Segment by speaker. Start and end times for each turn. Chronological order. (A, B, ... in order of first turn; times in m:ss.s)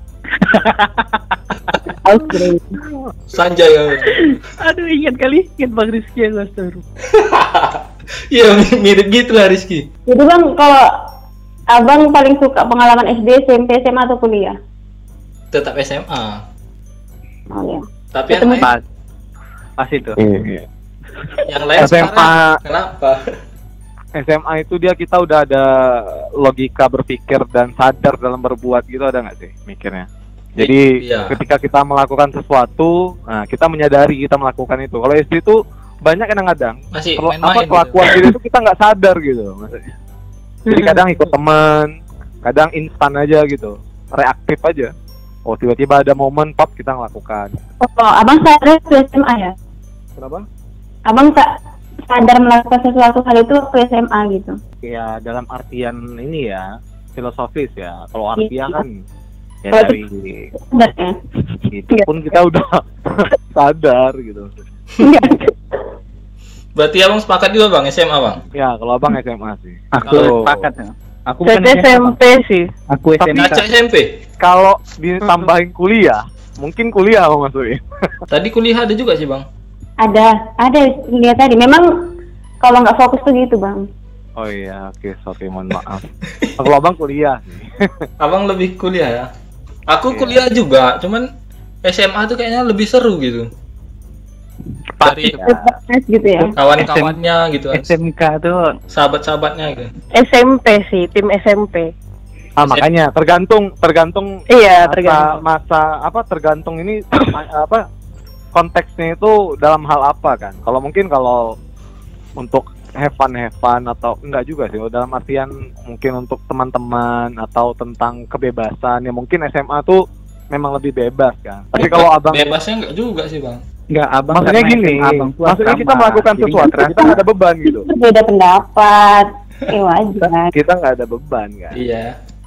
0:00.3-0:01.4 A
0:02.0-0:02.8 B
0:03.3-0:04.4 C
0:04.1-0:06.8 A
0:07.1-0:09.9 C
0:10.1-0:10.8 B
0:11.7-0:14.6 B
0:15.5-0:16.4 C
0:17.5-0:18.6 B
0:18.1-0:18.7 C
0:19.8-0:20.2 A
0:20.2-0:20.6 D
0:21.4-0:23.3 C
0:21.8-0:22.6 D
0:24.2-0:39.9 D
0:30.6-0:31.4 C
0:36.9-0:38.0 C
0:40.7-0:44.9 D
0:40.7-0:41.0 E
0:45.5-0:47.5 D
0:47.8-0:49.5 B
0:50.2-0:50.4 D
0:51.1-0:51.5 B
0:52.1-0:54.6 B
0:54.8-0:59.0 D
0:59.6-1:00.5 D
1:00.6-1:01.2 B
1:01.7-1:04.6 D
1:05.0-1:05.4 B
1:05.0-1:05.5 E
1:06.8-1:08.4 C
1:08.5-1:10.7 D
1:09.9-1:12.2 A
1:11.4-1:12.7 E
1:12.9-1:13.6 A
1:13.2-1:14.1 C
1:14.4-1:18.1 D
1:18.3-1:19.4 C
1:20.0-1:21.8 B
1:22.6-1:23.8 B
1:24.4-1:26.1 D
1:26.6-1:28.1 D
1:28.2-1:29.3 C
1:29.9-1:31.3 C
1:30.1-1:30.4 D
1:31.8-1:33.5 C
1:35.0-1:35.4 C
1:35.0-1:35.7 D
1:35.4-1:36.5 B
1:36.6-1:37.9 C
1:36.8-1:37.2 A
1:37.7-1:38.6 A
1:38.9-1:39.9 C
1:40.1-1:41.9 E
1:42.6-1:47.8 D
1:44.5-1:45.4 E
1:48.5-1:51.5 D
1:52.4-2:02.5 D
2:01.8-2:03.6 C
2:03.9-2:07.1 A
2:04.3-2:07.9 D
2:07.6-2:10.5 B
2:10.3-2:11.8 D
2:11.7-2:12.1 C